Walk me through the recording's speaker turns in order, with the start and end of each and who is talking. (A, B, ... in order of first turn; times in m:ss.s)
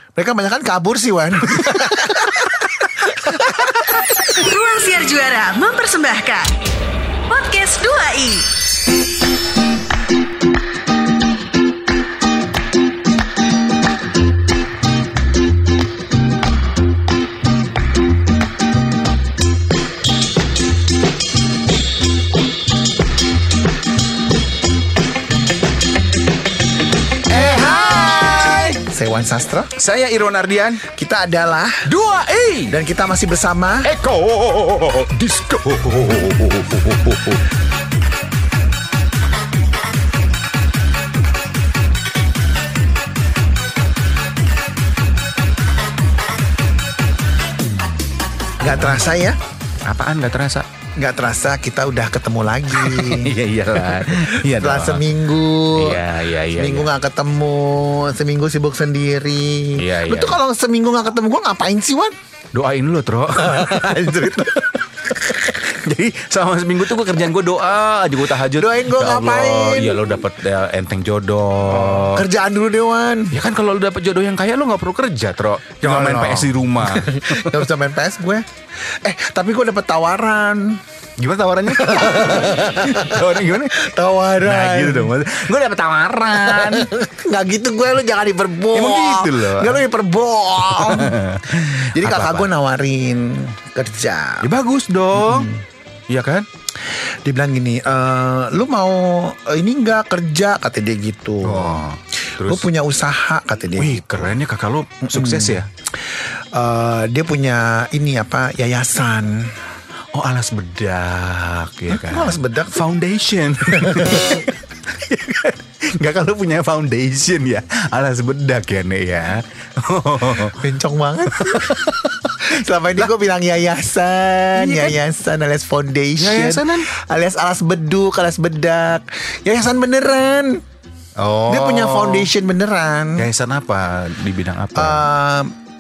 0:00.2-0:04.0 A
0:01.5-0:01.9 B
0:04.3-0:06.6 C
0:07.3-0:08.5 C
0:27.3-0:28.8 B
0:28.9-0:29.7 A
0:29.8-0:30.8 B
0:30.9-0:31.8 A
0:31.9-0:32.8 B
0:32.7-0:33.9 A
0:33.8-0:37.4 B
0:48.6-0:49.4 A
0:48.6-0:49.1 B
0:49.8-0:50.7 B
0:51.0-1:02.2 A
0:52.8-0:55.1 B
0:55.8-0:56.9 B
0:59.8-1:00.4 B
1:02.5-1:04.5 B
1:03.3-1:05.2 A
1:05.2-1:12.2 B
1:08.4-1:10.2 A
1:11.7-1:13.4 A
1:13.3-1:17.6 B
1:15.8-1:18.4 A
1:19.0-1:20.8 A
1:21.2-1:23.8 B
1:21.7-1:25.1 A
1:24.4-1:26.9 B
1:26.4-1:34.5 A
1:28.7-1:29.8 B
1:30.6-1:32.5 B
1:34.4-1:35.5 B
1:35.1-1:35.6 A
1:36.1-1:36.5 B
1:36.8-1:41.8 A
1:41.4-1:42.7 B
1:42.4-1:44.1 A
1:43.8-1:45.7 B
1:45.1-1:49.5 A
1:50.1-2:00.6 B
1:51.9-1:52.8 A
1:53.8-1:54.4 A
2:00.4-2:01.8 A
2:01.3-2:02.4 B
2:02.4-2:10.6 A
2:04.6-2:05.0 B
2:06.2-2:06.9 B
2:11.2-2:12.3 B
2:11.5-2:13.3 A
2:13.2-2:15.1 B
2:14.8-2:15.5 A